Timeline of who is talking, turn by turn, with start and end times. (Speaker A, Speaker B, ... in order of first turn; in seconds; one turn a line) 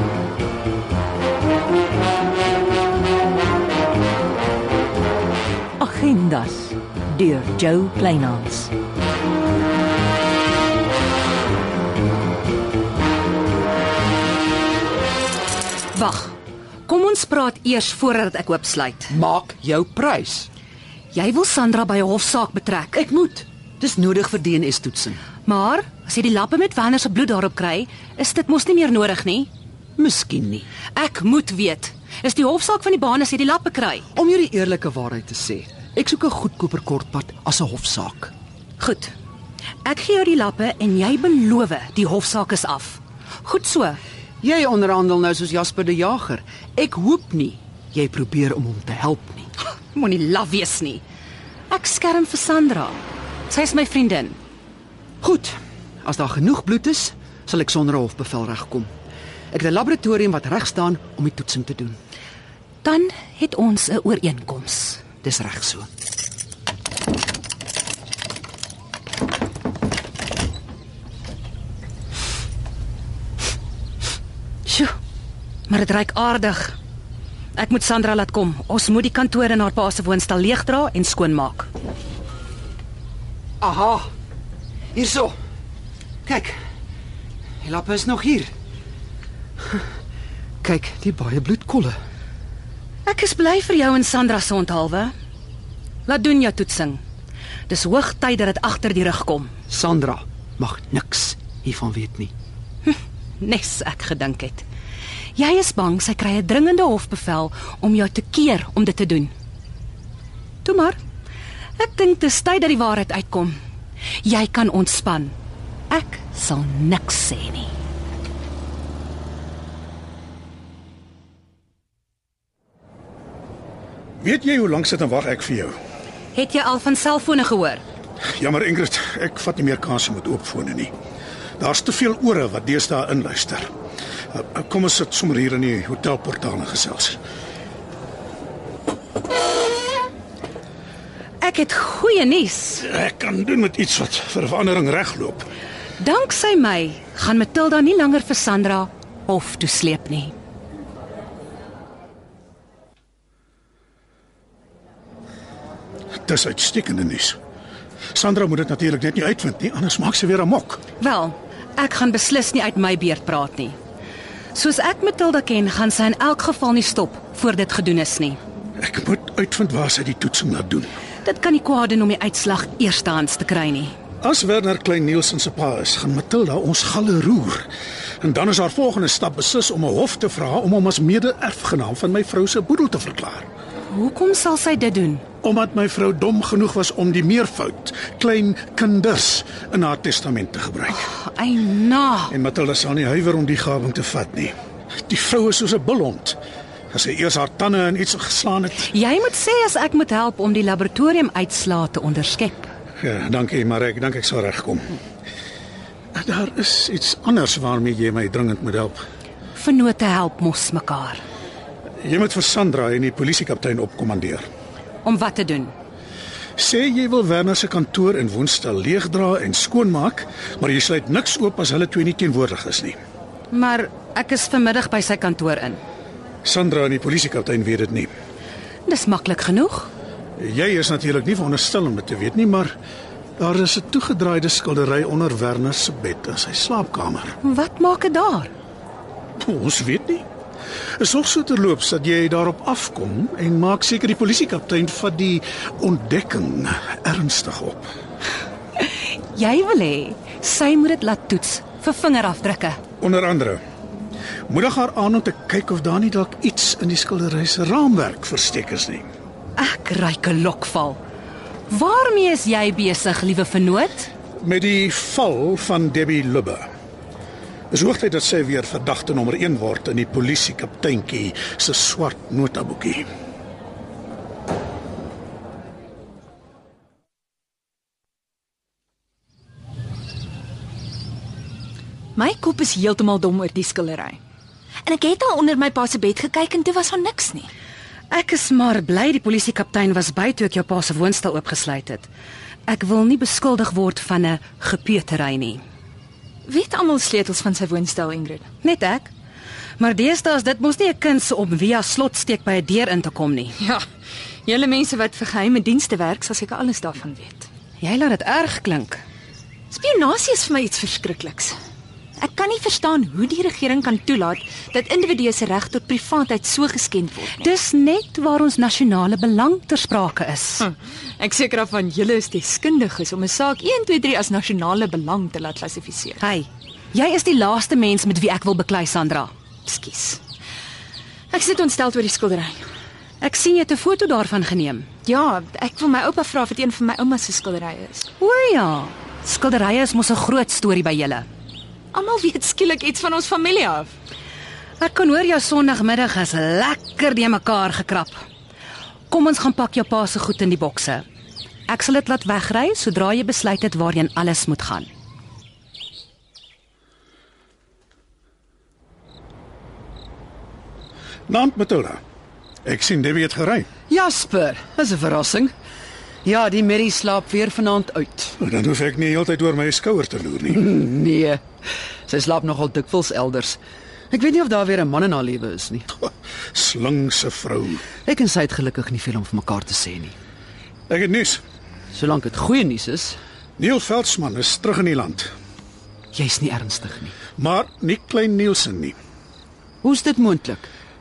Speaker A: 5.8-8.7
Speaker B: 15.9-19.1
Speaker C: 19.1-20.5
Speaker B: 21.1-23.0
Speaker C: 22.9-25.2
Speaker B: 25.4-29.5
Speaker C: 30.0-30.7
Speaker B: 30.9-34.0
Speaker C: 34.1-38.3
Speaker B: 38.8-39.1
Speaker B: 39.8-44.0
Speaker C: 44.4-49.5
Speaker B: 49.6-51.0
Speaker B: 51.7-53.0
Speaker B: 53.5-54.4
Speaker C: 55.2-58.9
Speaker C: 59.5-62.0
Speaker B: 62.8-65.1
Speaker C: 65.2-65.9
Speaker B: 74.7-74.9
Speaker B: 75.7-76.8
Speaker B: 77.5-81.7
Speaker C: 83.6-84.1
Speaker C: 84.9-85.3
Speaker C: 86.2-86.6
Speaker C: 87.6-88.5
Speaker C: 90.6-92.0
Speaker B: 93.0-95.1
Speaker B: 96.0-97.0
Speaker B: 97.7-99.5
Speaker C: 99.7-102.3
Speaker B: 102.8-104.6
Speaker B: 105.3-109.3
Speaker B: 110.6-111.0
Speaker B: 111.8-113.6
Speaker B: 114.2-115.3
Speaker B: 115.9-117.7
Speaker D: 124.2-125.7
Speaker B: 126.3-127.8
Speaker D: 128.4-130.9
Speaker D: 131.6-133.7
Speaker D: 134.3-137.2
Speaker B: 141.4-142.8
Speaker D: 142.8-145.4
Speaker B: 146.0-150.3
Speaker D: 156.2-157.4
Speaker D: 158.1-160.8
Speaker B: 161.0-163.8
Speaker B: 164.5-168.4
Speaker D: 168.8-170.9
Speaker B: 171.2-173.9
Speaker D: 174.2-177.7
Speaker D: 178.2-183.4
Speaker B: 183.9-185.2
Speaker D: 185.4-191.1
Speaker B: 190.9-192.3
Speaker D: 192.3-194.5
Speaker D: 195.1-196.4
Speaker D: 196.9-198.9
Speaker B: 198.9-202.7
Speaker D: 203.0-205.0
Speaker D: 206.1-209.0
Speaker B: 209.5-211.2
Speaker D: 212.0-214.4
Speaker B: 215.0-215.7
Speaker D: 216.6-222.9
Speaker B: 223.5-225.8
Speaker D: 226.4-228.1
Speaker B: 228.8-229.9
Speaker D: 230.4-232.7
Speaker D: 233.4-237.3
Speaker B: 237.4-238.5
Speaker D: 239.4-240.2
Speaker D: 241.0-247.9
Speaker B: 249.1-252.8
Speaker D: 253.0-253.6
Speaker D: 254.5-259.1
Speaker B: 259.6-261.0
Speaker B: 261.7-264.1
Speaker D: 264.4-266.7
Speaker D: 267.7-273.1
Speaker E: 282.1-284.2
Speaker E: 284.8-287.5
Speaker B: 288.1-292.1
Speaker B: 292.7-295.6
Speaker E: 296.5-298.4
Speaker B: 298.6-299.1
Speaker B: 299.8-303.5
Speaker E: 303.6-303.8
Speaker E: 304.4-307.5
Speaker B: 307.8-309.0
Speaker E: 309.7-311.6
Speaker E: 312.2-317.5
Speaker B: 317.4-320.6
Speaker E: 320.6-326.2
Speaker B: 326.2-329.3
Speaker E: 329.6-330.2
Speaker E: 331.3-332.6
Speaker B: 333.2-334.9
Speaker E: 335.1-338.1
Speaker B: 338.2-341.2
Speaker E: 341.9-343.9
Speaker B: 344.8-348.2
Speaker B: 349.1-351.0
Speaker B: 351.7-354.9
Speaker D: 361.3-362.0
Speaker D: 362.6-363.7
Speaker C: 363.9-365.5
Speaker C: 366.2-368.4
Speaker D: 368.4-370.6
Speaker C: 370.5-371.4
Speaker C: 372.1-373.6
Speaker C: 374.1-375.9
Speaker D: 376.5-377.8
Speaker C: 378.0-380.2
Speaker D: 380.9-381.4
Speaker C: 381.9-383.2
Speaker D: 383.6-385.3
Speaker C: 386.1-387.1
Speaker D: 387.4-388.9
Speaker C: 389.8-390.7